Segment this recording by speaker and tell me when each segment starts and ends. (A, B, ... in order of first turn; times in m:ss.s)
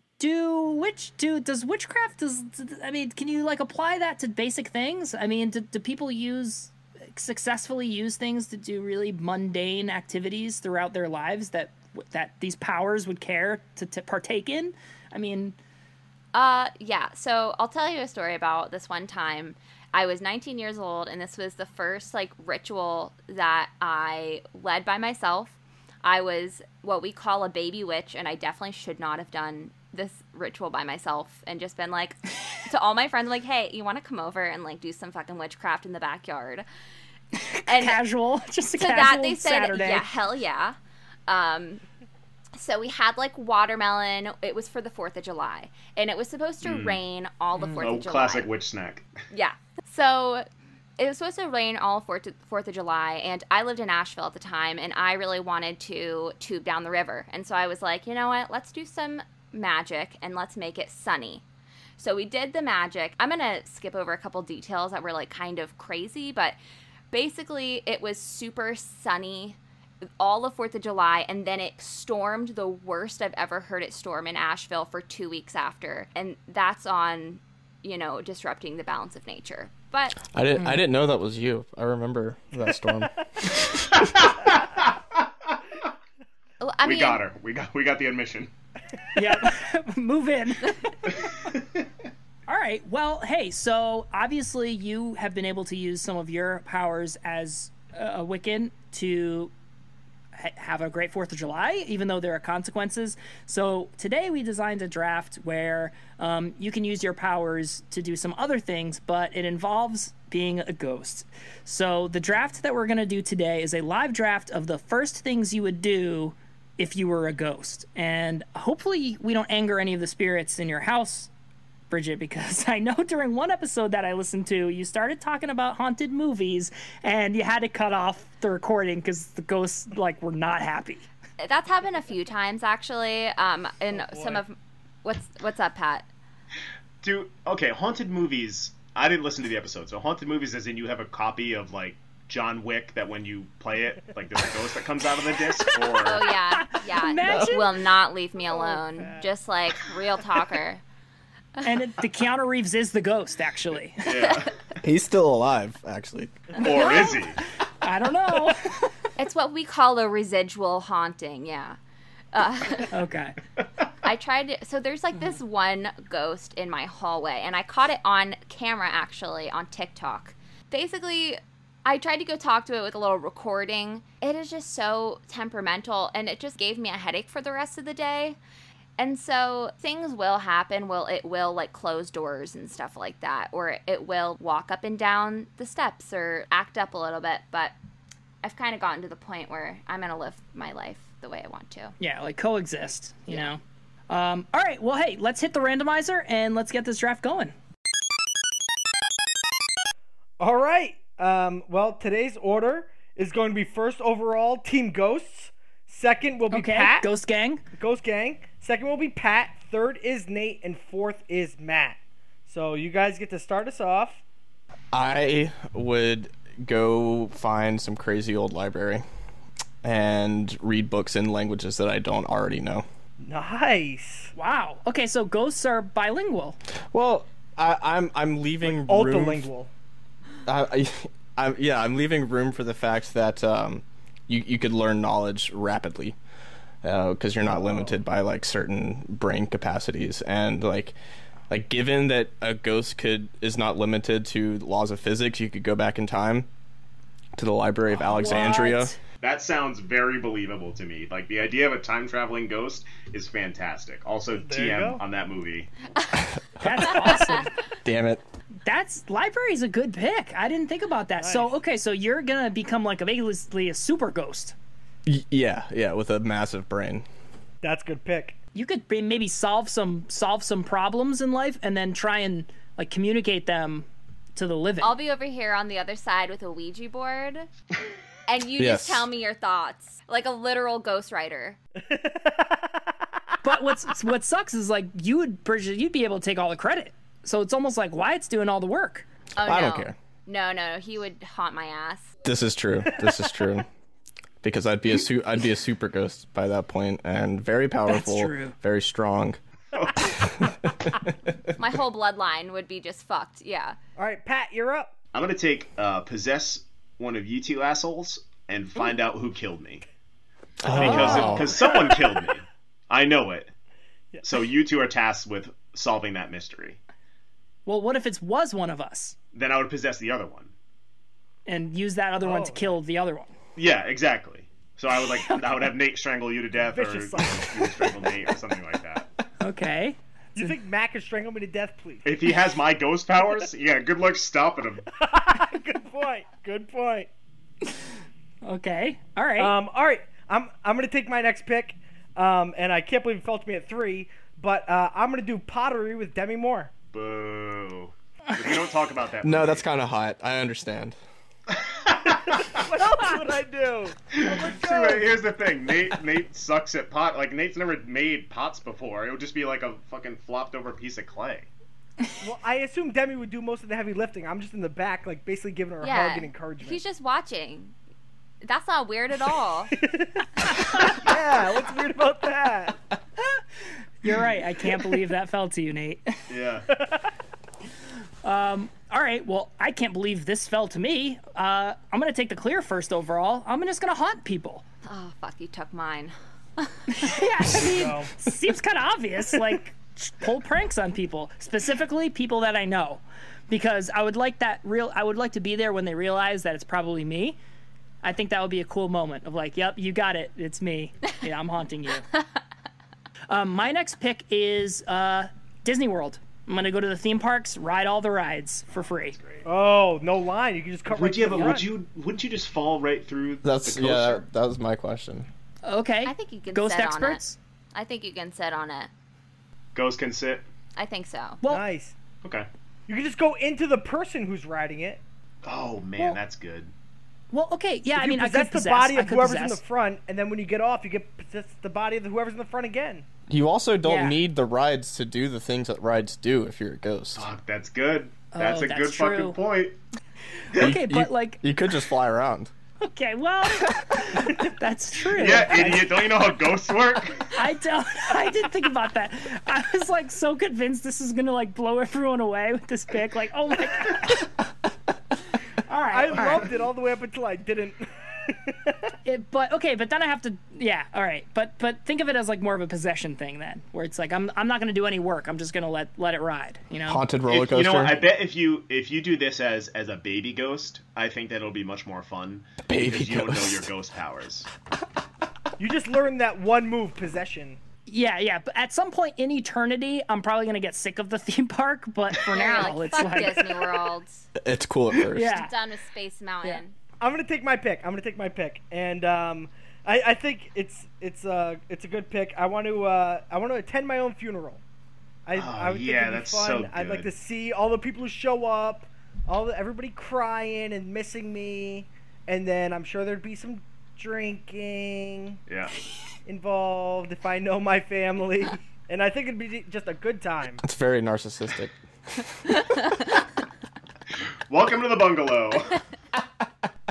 0:00.2-0:15.6 A
0:16.3-0:36.6 B
0:37.4-0:40.1 A
0:37.7-0:38.0 B
0:38.7-0:40.8 B
0:41.3-0:41.8 B
0:42.6-0:48.5 B
0:46.6-0:47.0 C
0:47.8-0:49.1 C
0:49.3-0:50.4 B
0:51.0-1:01.4 B
1:02.0-1:06.6 B
1:07.1-1:09.6 B
1:10.2-1:20.2 B
1:20.2-1:24.1 D
1:20.6-1:20.8 A
1:23.8-1:25.6 C
1:26.6-1:27.2 B
1:26.8-1:28.5 C
1:29.1-1:30.9 A
1:32.5-1:39.5 A
1:40.3-2:01.3 A
2:01.9-2:11.0 A
2:11.4-2:16.1 B
2:13.9-2:14.4 E
2:17.0-2:26.3 C
2:25.6-2:27.7 A
2:26.0-2:30.8 B
2:28.4-2:29.3 E
2:31.6-2:34.4 A
2:34.0-2:34.5 C
2:34.8-2:36.5 D
2:36.6-2:37.4 C
2:36.6-2:37.2 A
2:37.8-2:38.9 A
2:39.2-2:41.8 B
2:42.3-2:42.9 B
2:42.9-2:43.4 A
2:44.0-2:58.4 B
2:59.0-3:07.7 B
3:08.4-3:11.9 B
3:12.0-3:17.5 A
3:20.4-3:27.1 E
3:26.5-3:27.6 A
3:27.8-3:34.2 E
3:34.9-3:39.0 D
3:39.8-3:42.8 D
3:43.2-3:44.3 E
3:44.3-3:46.6 A
3:46.9-3:49.5 D
3:48.6-3:49.7 E
3:50.4-3:56.2 D
3:56.8-4:00.9 D
3:57.5-3:58.0 E
4:01.5-4:06.5 D
4:07.4-4:08.9 D
4:07.9-4:09.0 A
4:09.2-4:15.7 C
4:14.4-4:15.0 E
4:16.6-4:17.2 D
4:16.6-4:17.5 A
4:17.8-4:18.2 D
4:18.6-4:24.5 A
4:21.2-4:21.5 E
4:25.0-4:27.0 D
4:27.6-4:28.4 E
4:28.5-4:35.0 A
4:34.8-4:37.5 B
4:38.3-4:41.6 B
4:38.6-4:39.1 D
4:41.9-4:42.8 E
4:43.4-4:49.0 A
4:49.4-4:52.2 B
4:49.4-4:49.9 D
4:52.2-4:53.7 D
4:54.4-4:59.4 D
4:57.9-4:58.6 A
4:59.7-5:00.1 C
5:00.0-5:01.5 D
5:01.6-5:03.8 B
5:04.0-5:04.9 E
5:05.1-5:09.8 C
5:10.6-5:11.5 D
5:10.6-5:13.5 C
5:10.8-5:11.4 A
5:11.1-5:11.9 E
5:14.2-5:16.8 C
5:17.6-5:19.1 A
5:19.3-5:20.5 C
5:21.4-5:23.3 A
5:22.2-5:22.7 E
5:23.6-5:29.1 C
5:25.1-5:25.5 A
5:26.6-5:28.2 E
5:29.4-5:30.5 A
5:30.4-5:32.0 E
5:32.0-5:34.8 C
5:35.0-5:37.1 E
5:38.4-5:39.5 A
5:39.4-5:46.7 E
5:46.9-5:49.7 C
5:49.2-5:51.0 D
5:51.5-5:52.6 C
5:52.3-5:55.1 E
5:54.1-6:01.5 C
6:02.2-6:06.8 E
6:05.8-6:07.7 B
6:08.4-6:09.8 B
6:09.8-6:12.8 E
6:14.0-6:16.2 A
6:16.3-6:16.7 C
6:16.7-6:17.1 E
6:18.2-6:24.6 A
6:24.8-6:26.7 B
6:26.9-6:37.4 A
6:27.5-6:28.1 E
6:38.0-6:42.1 A
6:43.3-6:49.2 A
6:49.1-6:49.4 C
6:49.4-6:51.7 E
6:50.9-6:54.2 C
6:51.3-6:51.6 A
6:53.4-6:55.3 D
6:55.6-6:57.4 A
6:56.0-6:57.2 B
6:57.7-6:58.9 B
6:59.7-7:00.4 C
7:00.8-7:01.4 B
7:01.4-7:01.9 E
7:02.2-7:02.5 C
7:02.9-7:05.0 E
7:05.4-7:06.7 C
7:07.3-7:09.6 A
7:07.9-7:13.1 E
7:13.3-7:17.3 D
7:13.8-7:14.2 A
7:17.2-7:19.8 C
7:18.3-7:19.4 A
7:20.5-7:21.4 A
7:20.6-7:22.5 D
7:22.8-7:26.0 A
7:25.1-7:27.3 C
7:27.3-7:34.3 A
7:35.6-7:36.5 A
7:35.9-7:38.9 E
7:39.0-7:47.0 A
7:46.9-7:48.0 D
7:47.3-7:54.5 C
7:52.7-7:53.7 D
7:55.6-7:57.6 E
7:57.9-8:03.6 A
8:02.3-8:04.3 B
8:04.4-8:05.4 D
8:05.1-8:05.5 A
8:05.3-8:06.7 B
8:07.0-8:14.6 E
8:15.2-8:25.4 E
8:15.3-8:17.1 C
8:25.5-8:25.8 C
8:26.2-8:30.6 E
8:30.6-8:32.6 D
8:34.5-8:35.8 C